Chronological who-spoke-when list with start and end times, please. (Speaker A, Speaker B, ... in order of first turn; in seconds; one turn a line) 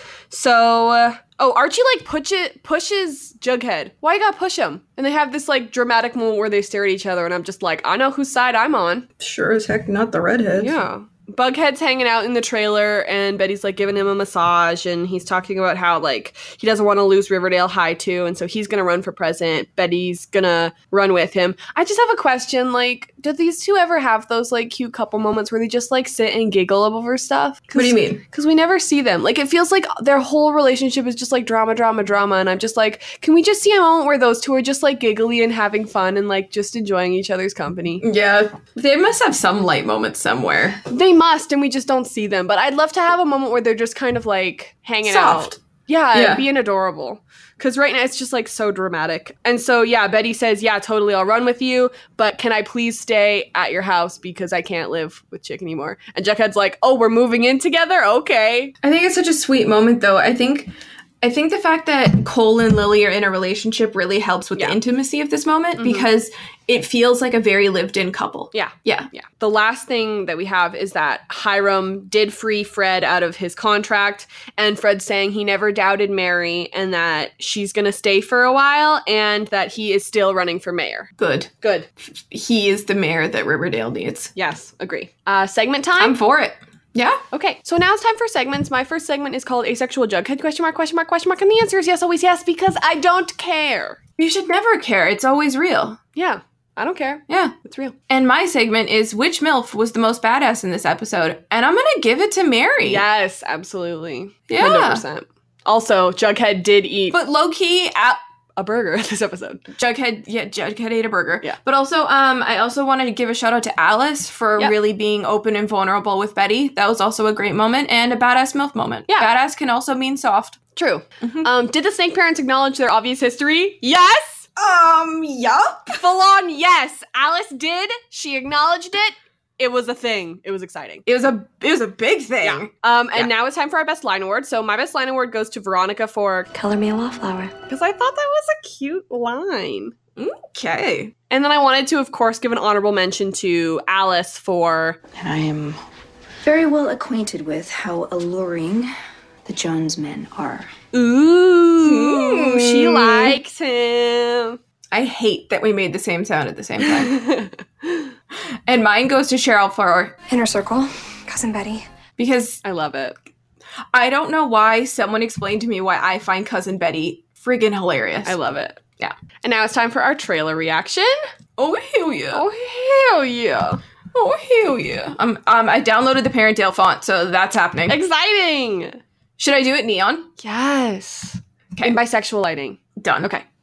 Speaker A: 0.3-9.1
Speaker B: 9.2-10.7
Speaker A: 10.6-38.0
Speaker B: 27.7-28.2
Speaker B: 38.0-40.8
Speaker A: 40.9-58.8
Speaker B: 45.0-45.6
Speaker B: 46.1-46.5
Speaker B: 58.8-69.1
Speaker A: 65.8-66.1
Speaker A: 68.5-81.1
Speaker B: 81.2-81.5
Speaker A: 81.6-81.9
Speaker B: 82.0-84.3
Speaker A: 84.3-86.2
Speaker B: 86.0-87.2
Speaker A: 87.3-94.0
Speaker B: 94.2-96.0
Speaker A: 96.1-98.0
Speaker B: 97.3-97.5
Speaker B: 98.1-103.0
Speaker A: 102.8-107.2
Speaker B: 104.5-105.0
Speaker B: 107.1-108.2
Speaker A: 108.6-109.6
Speaker B: 109.8-120.6
Speaker A: 120.8-124.5
Speaker B: 121.2-121.5
Speaker B: 124.6-126.0
Speaker A: 125.9-131.1
Speaker B: 131.1-133.3
Speaker A: 132.4-136.5
Speaker C: 136.5-137.5
Speaker A: 137.7-139.9
Speaker B: 140.2-141.1
Speaker A: 141.3-145.0
Speaker C: 145.2-145.8
Speaker C: 146.4-148.9
Speaker C: 149.4-150.7
Speaker A: 150.9-154.6
Speaker B: 151.8-153.4
Speaker B: 154.9-157.1
Speaker A: 156.8-158.1
Speaker B: 158.7-160.2
Speaker C: 160.3-161.8
Speaker B: 162.2-162.6
Speaker A: 162.6-163.2
Speaker B: 163.9-168.4
Speaker A: 168.2-168.8
Speaker A: 169.4-171.2
Speaker B: 171.6-172.4
Speaker A: 172.3-173.8
Speaker B: 174.1-178.0
Speaker A: 177.9-179.0
Speaker B: 179.4-180.3
Speaker A: 180.4-183.4
Speaker B: 183.0-183.4